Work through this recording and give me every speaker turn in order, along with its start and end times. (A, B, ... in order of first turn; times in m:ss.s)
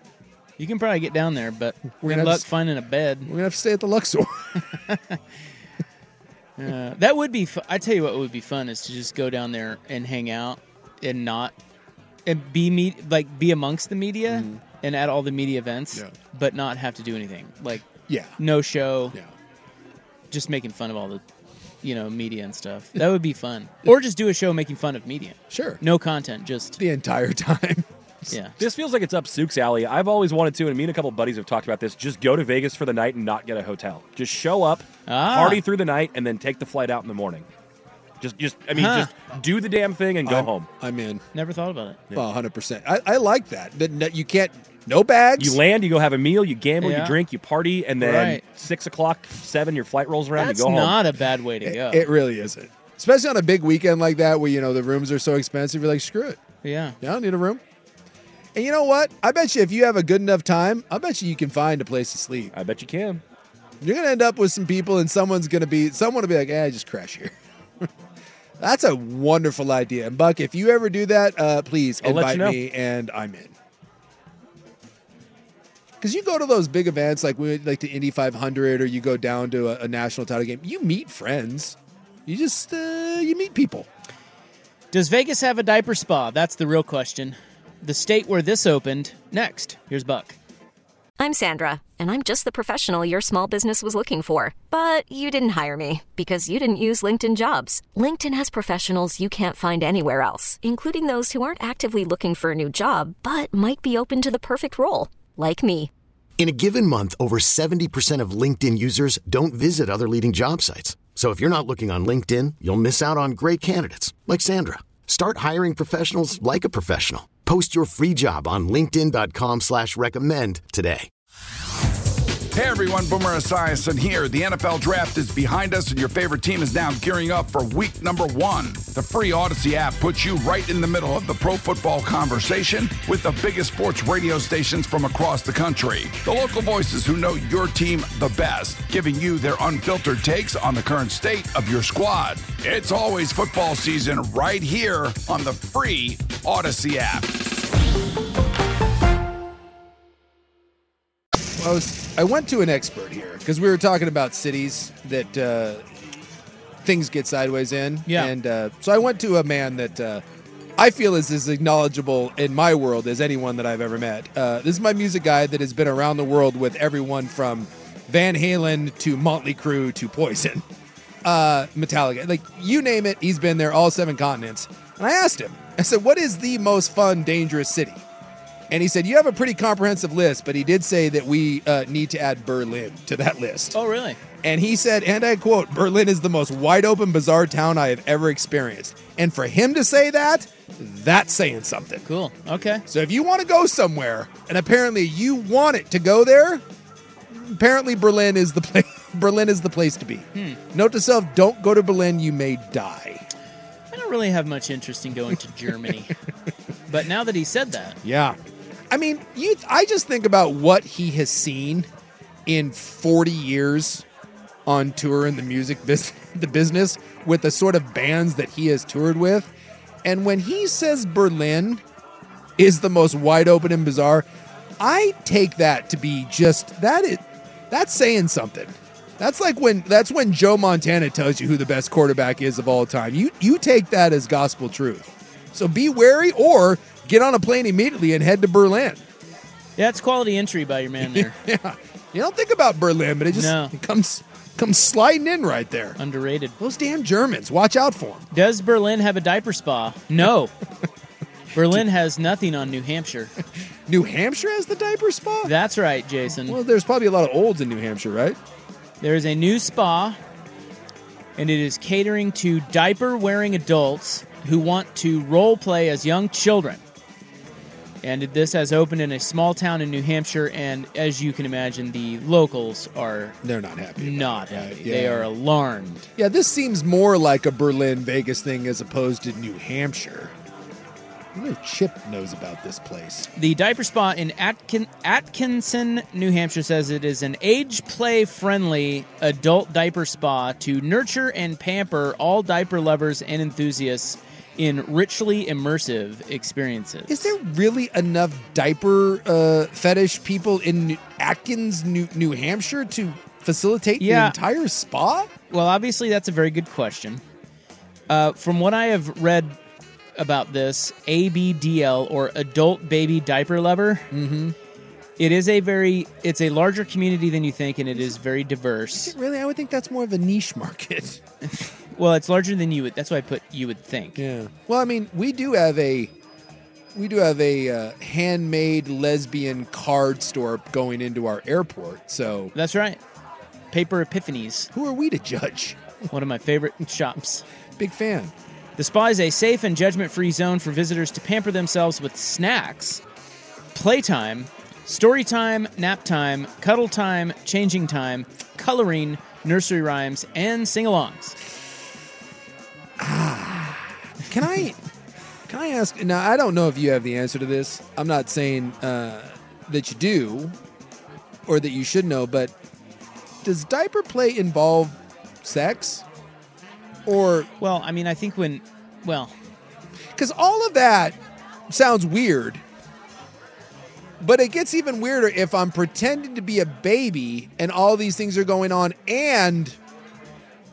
0:00.6-0:03.3 A
0:02.0-0:02.5 B
0:03.2-0:04.6 B
0:04.9-0:05.2 A
0:06.6-0:11.5 A
0:12.2-0:17.9 A
0:14.3-0:14.6 B
0:18.1-0:18.4 B
0:18.4-0:19.2 A
0:20.3-0:21.2 A
0:21.8-0:26.8 A
0:25.5-0:25.8 B
0:26.8-0:28.3 B
0:28.3-0:28.6 A
0:28.6-0:37.4 C
0:35.1-0:35.6 A
0:38.2-0:40.7 C
0:38.7-0:39.1 A
0:40.2-0:41.2 B
0:41.3-0:42.0 A
0:42.1-0:45.6 B
0:45.4-0:51.0 C
0:46.8-0:47.1 A
0:48.0-0:48.4 A
0:50.4-0:52.1 A
0:51.6-0:56.4 B
0:56.6-0:57.0 A
0:57.0-0:57.6 B
0:58.5-1:02.5 B
1:02.5-1:03.2 C
1:03.8-1:07.8 B
1:08.6-1:13.5 B
1:12.0-1:12.6 C
1:16.0-1:23.9 B
1:24.9-1:30.4 A
1:31.2-1:45.9 D
1:46.4-2:01.1 E
2:02.5-2:27.3 F
2:31.6-2:36.2 B
2:36.8-2:40.2 B
2:38.0-2:38.3 A
2:40.8-2:50.6 B
2:51.2-2:58.0 B
2:58.7-3:03.8 B
3:03.7-3:04.2 A
3:04.4-3:12.0 B
3:12.0-3:12.8 A
3:12.9-3:16.6 B
3:17.3-3:23.2 B
3:23.9-3:26.2 A
3:26.9-3:28.0 A
3:28.0-3:28.4 B
3:28.9-3:31.9 B
3:32.4-3:34.0 B
3:34.6-3:39.5 B
3:40.0-3:41.8 B
3:42.6-3:44.3 B
3:44.8-3:59.0 B
3:59.8-4:01.4 A
4:01.0-4:06.0 B
4:03.3-4:03.7 A
4:06.0-4:06.6 A
4:06.6-4:08.3 B
4:08.3-4:10.5 A
4:11.5-4:13.3 A
4:13.9-4:15.5 B
4:15.4-4:16.6 A
4:16.4-4:18.4 B
4:19.0-4:20.2 A
4:21.4-4:26.8 A
4:28.0-4:33.4 A
4:33.4-4:35.3 B
4:34.0-4:36.1 A
4:36.2-4:40.3 B
4:41.3-4:43.3 B
4:43.3-4:57.3 A
4:57.1-5:05.3 B
5:04.0-5:04.4 A
5:05.5-5:07.2 A
5:08.1-5:09.6 A
5:10.2-5:14.1 A
5:14.1-5:14.6 B
5:15.2-5:19.1 A
5:18.9-5:21.2 B
5:21.6-5:24.2 A
5:24.2-5:26.1 B
5:26.9-5:32.5 B
5:32.5-5:33.0 A
5:33.7-5:34.7 A
5:34.7-5:35.8 B
5:36.1-5:37.4 A
5:37.8-5:38.3 B
5:38.8-5:43.0 A
5:43.7-5:51.4 A
5:53.0-5:54.8 B
5:55.5-6:00.5 B
6:01.4-6:02.5 B
6:03.4-6:06.0 B
6:07.0-6:07.5 B
6:07.6-6:09.3 A
6:10.2-6:11.2 B
6:11.7-6:12.6 B
6:14.2-6:19.8 B